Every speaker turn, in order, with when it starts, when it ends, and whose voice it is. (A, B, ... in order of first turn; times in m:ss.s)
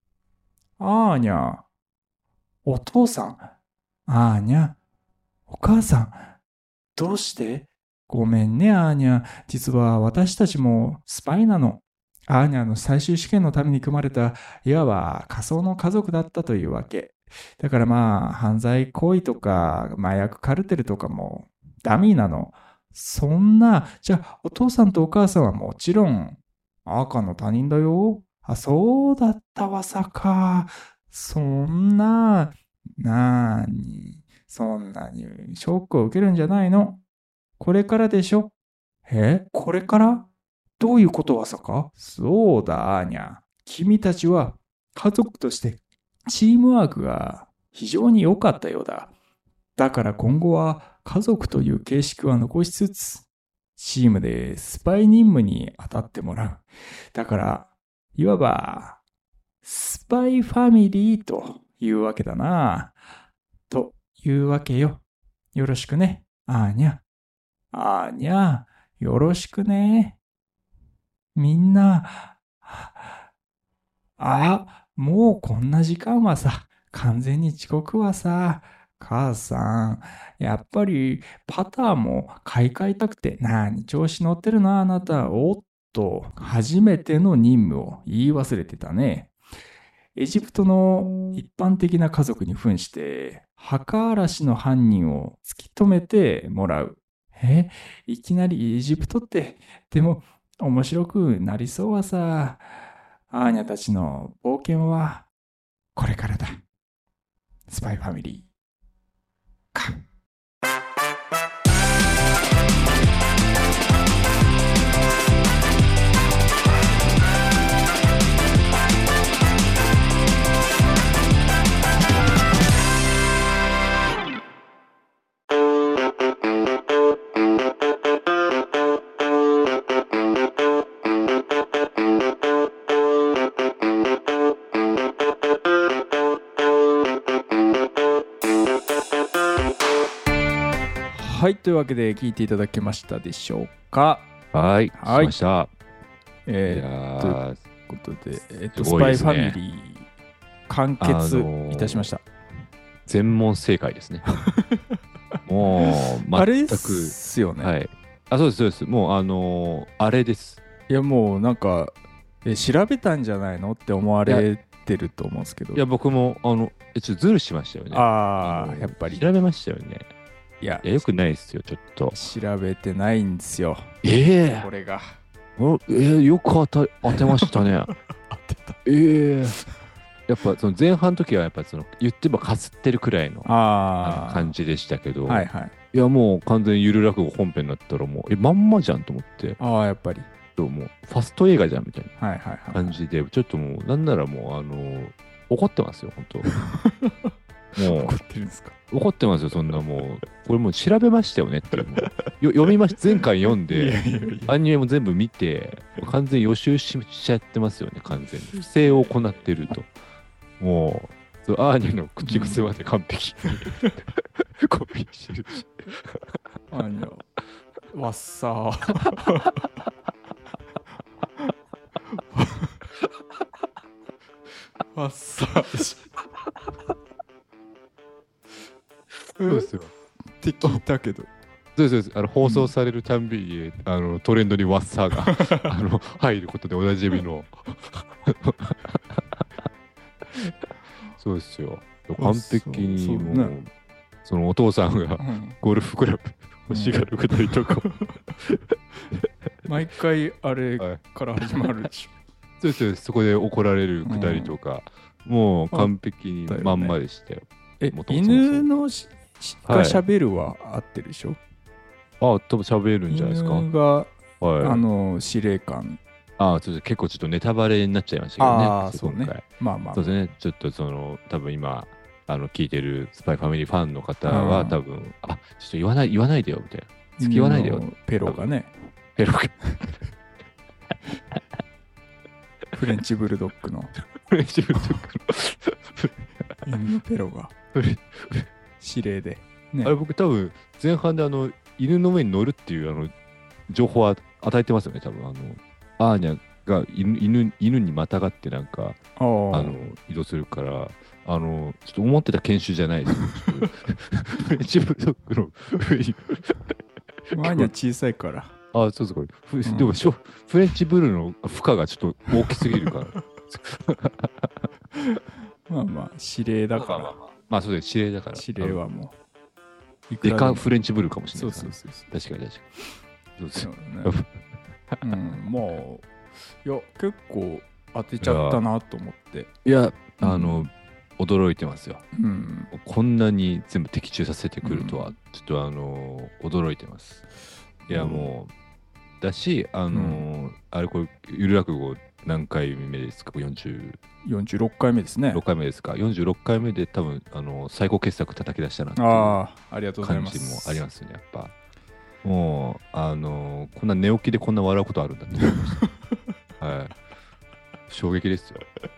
0:00.8-0:01.6 A
0:02.6-0:03.5 A
0:04.1-0:04.8 A
0:05.5-0:06.3 A
0:07.0-0:37.0 A
0:37.6-0:38.5 A
0:39.1-0:40.3 A
0:40.8-0:49.1 A
0:49.8-0:53.2 A
0:53.8-0:59.0 A
0:59.6-1:02.9 A
1:03.7-1:05.0 A
1:05.5-1:07.0 A
1:07.7-1:10.2 A
1:11.3-1:13.2 A
1:14.2-1:29.3 A
1:30.2-1:42.7 A
1:43.3-1:45.3 A
1:45.9-1:46.6 A
1:47.7-1:48.5 A
1:49.7-1:50.0 A
2:21.1-2:24.3 A
2:24.5-2:25.7 B
2:25.0-2:25.3 A
2:26.4-2:30.1 A
2:26.7-2:27.6 B
2:28.7-2:29.6 B
2:30.7-2:32.2 A
2:31.0-2:32.1 B
2:33.1-2:34.2 B
2:34.3-2:35.0 A
2:35.5-2:40.6 B
2:35.8-2:37.7 A
2:40.9-2:45.8 A
2:45.7-2:50.1 B
2:47.9-2:49.3 A
2:50.6-2:51.0 A
2:50.8-2:52.2 B
2:52.1-2:53.9 A
2:54.0-2:54.7 B
2:54.5-2:55.2 A
2:55.6-2:57.9 B
2:57.1-2:58.8 A
2:58.8-2:59.6 B
3:00.3-3:09.6 B
3:03.4-3:04.5 A
3:05.2-3:05.7 A
3:09.6-3:10.3 A
3:10.6-3:12.1 B
3:12.2-3:13.0 A
3:12.7-3:16.5 B
3:16.4-3:18.7 A
3:17.8-3:18.2 B
3:18.9-3:29.9 B
3:21.7-3:22.2 A
3:23.1-3:24.6 A
3:28.8-3:29.1 A
3:30.6-3:36.4 B
3:32.2-3:32.6 A
3:36.7-3:37.2 A
3:37.9-3:39.6 A
3:42.1-3:42.8 A
3:44.9-3:46.1 A
3:49.4-3:49.7 A
3:49.4-3:49.9 B
3:50.4-3:51.3 A
3:51.8-3:59.4 B
3:52.4-3:52.7 A
3:55.3-3:55.7 A
4:01.2-4:03.7 B
4:02.2-4:03.5 A
4:04.2-4:07.9 B
4:05.2-4:05.6 A
4:06.7-4:08.2 A
4:08.4-4:09.2 B
4:09.6-4:12.1 A
4:12.6-4:18.7 B
4:14.0-4:14.6 A
4:16.4-4:17.0 A
4:17.8-4:21.4 A
4:19.6-4:20.0 B
4:22.2-4:23.7 B
4:23.1-4:26.0 A
4:24.4-4:24.8 B
4:26.4-4:38.5 B
4:28.4-4:30.1 A
4:34.3-4:34.8 A
4:37.2-4:38.7 A
4:39.2-4:39.6 B
4:42.7-4:43.9 A
4:44.2-4:46.5 B
4:46.6-4:47.5 A
4:47.7-4:48.5 B
4:48.8-4:49.9 A
4:49.8-4:53.1 B
4:53.7-4:59.0 B
4:59.2-4:59.8 A
4:59.5-5:06.8 B
5:03.1-5:03.7 A
5:07.3-5:08.5 A
5:07.4-5:07.7 B
5:08.7-5:14.6 B
5:09.6-5:10.0 A
5:12.5-5:13.0 A
5:15.0-5:17.2 A
5:16.7-5:18.8 B
5:18.3-5:19.2 A
5:20.1-5:20.7 A
5:20.2-5:22.7 B
5:21.3-5:22.1 A
5:23.4-5:25.1 B
5:23.6-5:24.2 A
5:25.0-5:26.1 A
5:26.6-5:29.5 A
5:28.2-5:28.6 B
5:29.6-5:32.0 B
5:30.2-5:30.7 A
5:32.1-5:32.7 A
5:32.7-5:37.2 B
5:34.6-5:35.1 A
5:37.8-5:38.3 A
5:37.9-5:38.5 B
5:39.2-5:44.0 B
5:39.9-5:40.2 A
5:44.2-5:45.4 A
5:45.3-5:49.4 B
5:49.0-5:50.8 A
5:50.0-5:51.5 B
5:52.2-5:55.8 B
5:55.5-5:55.8 A
5:56.6-5:57.0 B
5:57.9-5:58.6 B